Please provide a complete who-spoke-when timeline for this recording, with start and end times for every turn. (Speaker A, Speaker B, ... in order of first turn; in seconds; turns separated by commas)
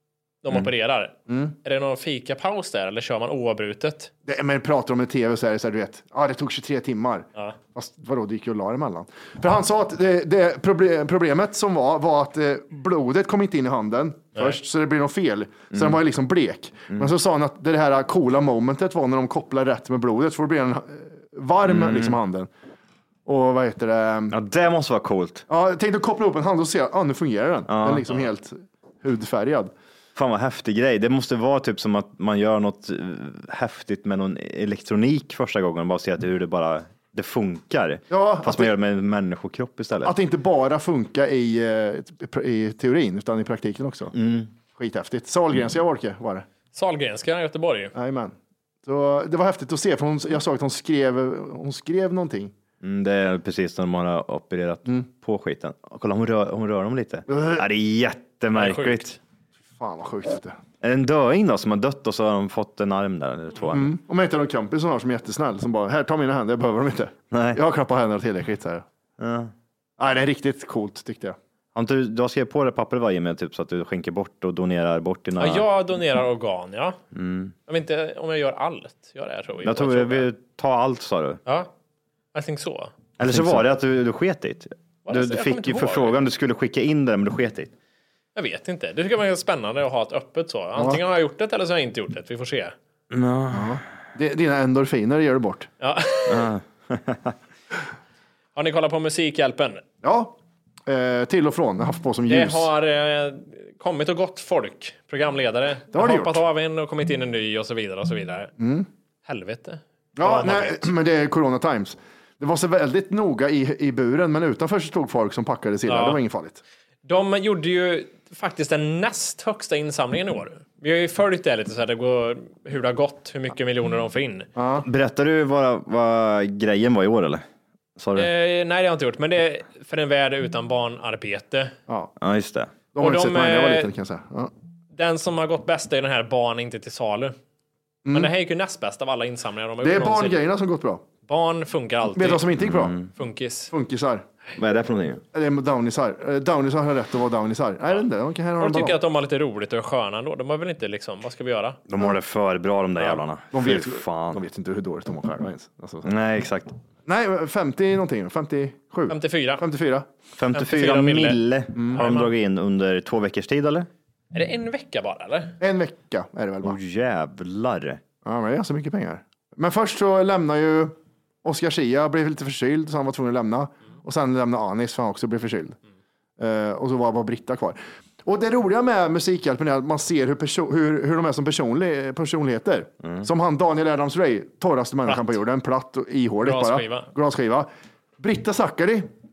Speaker A: 0.4-4.1, Speaker B: 1.3-1.5, Speaker B: 4.2-22.5, Speaker C: 15.7-16.0, Speaker C: 21.6-22.2, Speaker B: 23.2-24.3, Speaker C: 24.3-25.4, Speaker B: 25.5-29.7, Speaker C: 27.7-28.2, Speaker C: 30.1-40.1, Speaker B: 38.1-38.7, Speaker B: 40.0-44.1, Speaker C: 44.1-44.5, Speaker B: 44.7-46.5, Speaker A: 46.7-47.9, Speaker B: 47.9-48.3, Speaker B: 48.9-52.5, Speaker C: 52.8-59.2, Speaker B: 57.3-57.6, Speaker A: 58.5-59.0, Speaker B: 59.7-60.6, Speaker C: 60.8-63.9, Speaker B: 63.7-68.8, Speaker C: 67.3-67.6, Speaker C: 69.2-69.5, Speaker B: 70.0-71.4, Speaker C: 71.7-75.7, Speaker A: 75.4-77.0, Speaker C: 77.1-77.5, Speaker A: 77.7-80.2, Speaker C: 79.6-81.4, Speaker A: 81.5-81.7, Speaker A: 82.3-82.9, Speaker C: 83.2-87.7, Speaker B: 83.3-83.6, Speaker A: 85.0-86.1, Speaker A: 88.3-92.7, Speaker C: 93.1-93.8, Speaker B: 93.5-95.7, Speaker A: 95.8-96.5, Speaker C: 96.3-97.3, Speaker A: 98.5-99.8, Speaker B: 100.0-100.3, Speaker B: 100.9-102.7, Speaker A: 102.3-108.5, Speaker B: 105.9-106.4, Speaker B: 108.6-108.9, Speaker A: 109.2-110.9, Speaker B: 110.2-116.6, Speaker A: 115.8-116.2, Speaker A: 117.0-124.5, Speaker B: 124.5-124.8, Speaker C: 124.8-127.4, Speaker C: 128.0-128.3, Speaker A: 128.2-131.7, Speaker C: 132.2-132.9, Speaker B: 132.9-134.5, Speaker A: 133.0-133.9, Speaker A: 134.9-137.3, Speaker B: 138.0-138.3, Speaker A: 138.1-140.4, Speaker B: 139.8-141.0, Speaker A: 141.3-142.4, Speaker B: 142.1-142.9, Speaker C: 142.6-143.1, Speaker A: 143.1-143.7, Speaker B: 143.7-144.2, Speaker C: 144.6-145.2, Speaker B: 145.3-149.0, Speaker A: 148.6-151.8, Speaker C: 151.9-154.4, Speaker B: 153.5-156.1, Speaker C: 156.0-156.7, Speaker B: 157.1-160.1, Speaker A: 159.1-159.6, Speaker C: 160.4-163.9, Speaker A: 160.5-161.4, Speaker B: 161.8-162.0, Speaker A: 161.9-162.3, Speaker A: 164.3-165.6, Speaker B: 165.6-166.8, Speaker C: 166.6-168.0, Speaker B: 168.2-175.8, Speaker B: 176.4-187.7, Speaker A: 186.4-187.1, Speaker B: 188.2-189.1